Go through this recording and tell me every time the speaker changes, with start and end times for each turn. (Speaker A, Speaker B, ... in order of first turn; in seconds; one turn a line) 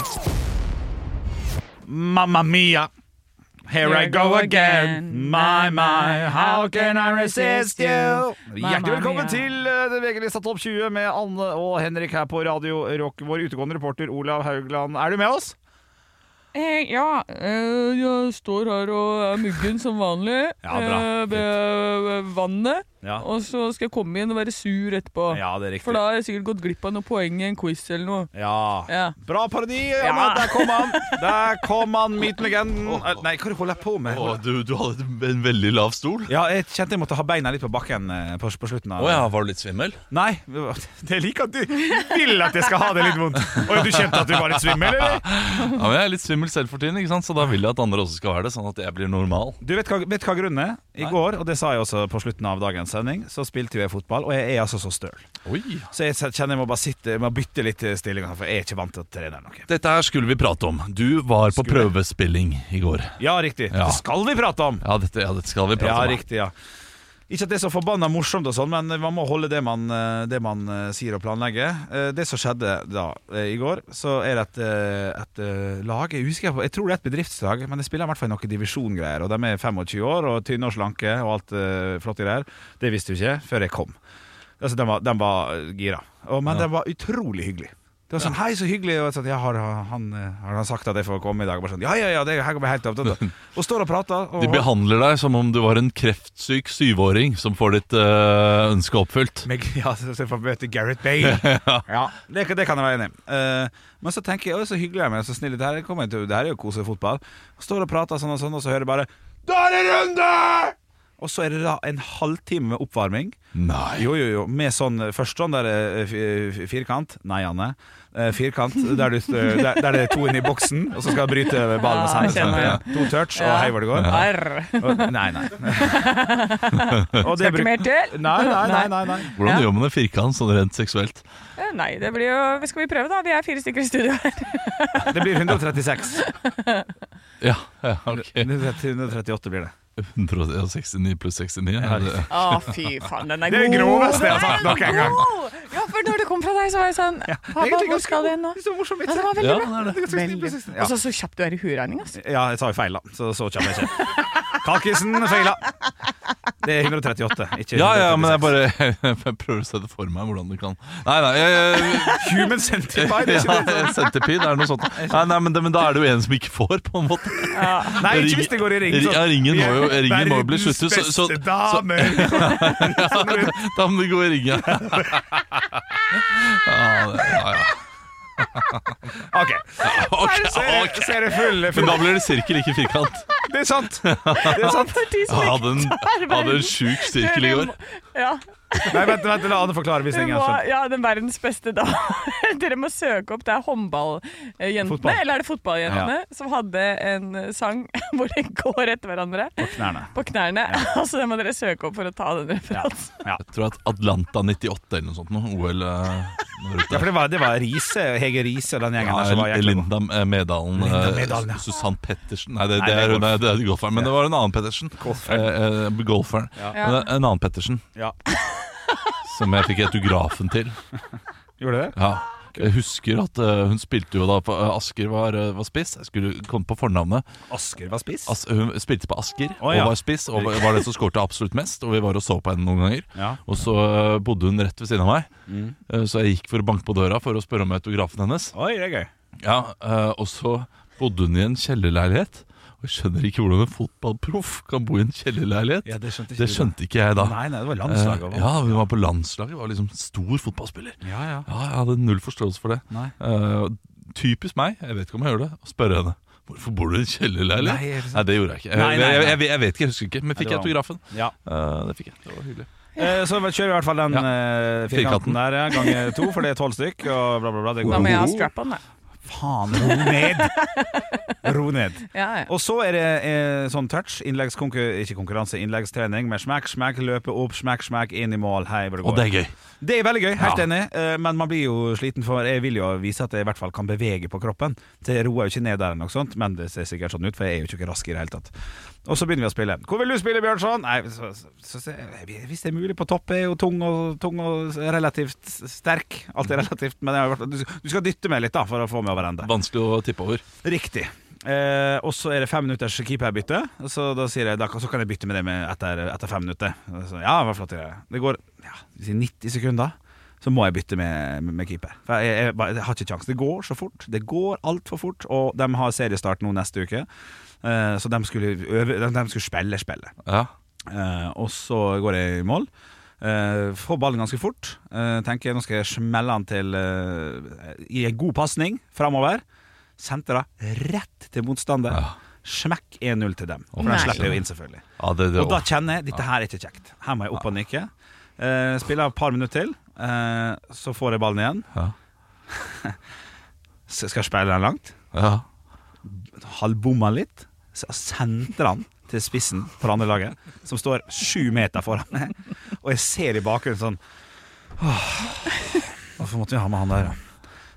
Speaker A: 1.8-2.9
Speaker A: 3.6-15.6
Speaker B: 3.8-9.5
Speaker B: 16.5-28.3
Speaker A: 20.6-21.2
Speaker A: 25.3-26.0
Speaker A: 28.3-34.4
Speaker B: 28.9-29.1
Speaker B: 30.0-31.4
Speaker C: 32.9-33.1
Speaker C: 34.1-36.3
Speaker A: 36.3-39.3
Speaker C: 39.0-40.0
Speaker A: 40.1-45.3
Speaker C: 43.5-44.0
Speaker C: 44.5-49.6
Speaker A: 49.6-55.3
Speaker C: 55.5-55.9
Speaker A: 55.9-59.7
Speaker C: 59.7-63.2
Speaker A: 61.5-61.9
Speaker A: 63.2-64.8
Speaker C: 63.7-64.0
Speaker C: 64.8-66.2
Speaker A: 65.8-66.5
Speaker A: 67.3-84.0
Speaker A: 84.6-94.7
Speaker C: 94.4-99.5
Speaker A: 99.4-113.4
Speaker C: 101.2-101.8
Speaker C: 113.5-114.1
Speaker A: 114.0-124.2
Speaker B: 119.5-119.8
Speaker B: 121.7-129.7
Speaker C: 122.2-122.8
Speaker C: 124.0-124.3
Speaker A: 124.8-126.2
Speaker A: 127.2-129.3
Speaker C: 129.3-131.2
Speaker B: 131.6-135.3
Speaker A: 135.1-136.3
Speaker B: 136.2-136.9
Speaker C: 137.4-138.6
Speaker A: 138.1-139.7
Speaker C: 140.0-142.8
Speaker A: 141.8-142.3
Speaker B: 142.3-152.2
Speaker A: 143.5-145.3
Speaker C: 144.3-145.1
Speaker A: 147.3-150.9
Speaker C: 149.4-150.0
Speaker A: 152.2-155.7
Speaker A: 156.6-158.6
Speaker C: 157.7-162.3
Speaker A: 162.1-164.0
Speaker C: 162.9-175.2
Speaker A: 165.0-165.2
Speaker B: 167.5-168.0
Speaker A: 168.0-173.6
Speaker A: 174.7-175.6
Speaker C: 176.1-177.8
Speaker C: 178.4-178.8
Speaker A: 179.3-182.1
Speaker C: 179.8-183.3
Speaker A: 183.5-184.9
Speaker C: 184.1-184.8
Speaker B: 184.4-189.4
Speaker C: 185.3-187.7
Speaker A: 188.8-190.6
Speaker B: 190.1-203.2
Speaker A: 194.8-195.2
Speaker A: 195.8-196.1
Speaker A: 199.6-200.1
Speaker A: 202.7-203.4
Speaker C: 203.4-207.2
Speaker A: 206.9-209.9
Speaker C: 209.0-217.8
Speaker A: 210.8-211.6
Speaker A: 212.8-214.1
Speaker A: 215.0-215.5
Speaker B: 216.7-217.1
Speaker C: 219.2-220.8
Speaker A: 221.6-222.0
Speaker C: 222.0-227.2
Speaker A: 227.5-228.3
Speaker C: 228.2-235.3
Speaker A: 229.6-230.7
Speaker A: 233.2-233.4
Speaker A: 235.5-235.8
Speaker C: 235.9-238.5
Speaker A: 238.5-239.1
Speaker C: 239.4-262.7
Speaker A: 245.8-248.8
Speaker A: 251.0-251.5
Speaker A: 257.6-259.4
Speaker A: 260.4-261.3
Speaker A: 263.0-268.3
Speaker C: 264.8-265.4
Speaker B: 267.9-268.8
Speaker C: 267.9-268.5
Speaker A: 269.2-270.6
Speaker B: 269.8-271.3
Speaker A: 271.4-279.2
Speaker B: 272.1-272.5
Speaker C: 279.0-279.5
Speaker A: 279.8-288.5
Speaker C: 280.4-280.7
Speaker A: 289.1-299.5
Speaker C: 299.4-300.4
Speaker A: 300.6-317.1
Speaker A: 317.6-320.1
Speaker C: 320.2-320.5
Speaker A: 320.9-322.7
Speaker A: 323.2-329.4
Speaker A: 330.0-334.8
Speaker C: 331.9-332.2
Speaker C: 333.8-334.4
Speaker B: 333.8-334.2
Speaker C: 335.0-335.7
Speaker A: 335.4-341.7
Speaker A: 342.5-343.0
Speaker A: 343.9-344.9
Speaker C: 345.1-345.4
Speaker A: 346.1-354.0
Speaker A: 354.8-357.2